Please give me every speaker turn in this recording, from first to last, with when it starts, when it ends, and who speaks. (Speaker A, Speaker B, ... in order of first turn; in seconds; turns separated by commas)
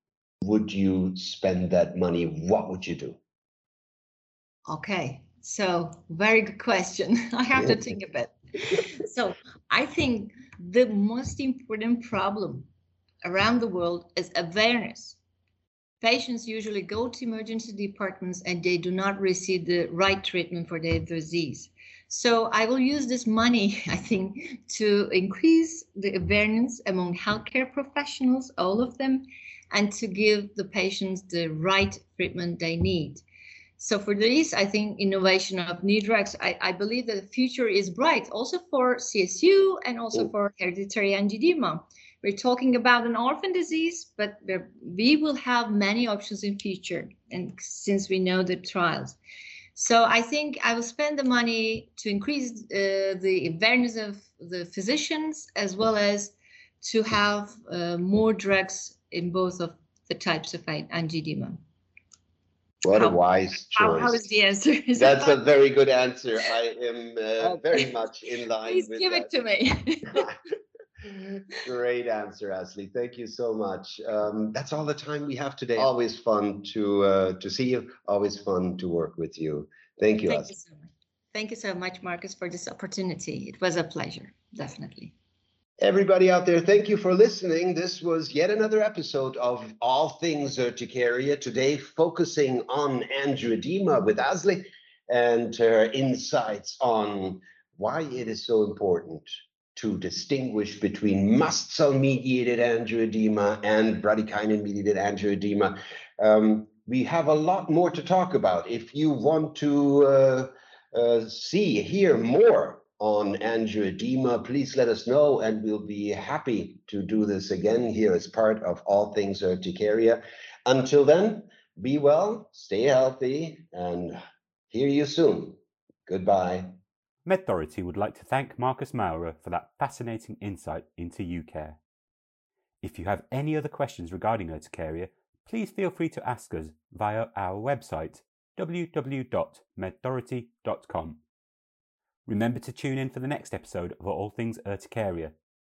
Speaker A: 0.4-3.2, Speaker B: 4.7-12.7, Speaker B: 13.2-15.2, Speaker B: 16.0-33.2, Speaker B: 33.8-49.2, Speaker B: 49.7-61.6, Speaker A: 62.8-64.2, Speaker B: 62.9-63.2, Speaker B: 63.7-65.4, Speaker A: 65.0-69.3, Speaker B: 67.4-67.9, Speaker B: 68.6-70.3, Speaker A: 71.1-80.5, Speaker B: 80.3-85.1, Speaker A: 85.8-124.2, Speaker A: 124.7-126.7, Speaker C: 127.2-131.8, Speaker C: 132.8-141.2, Speaker C: 142.2-145.3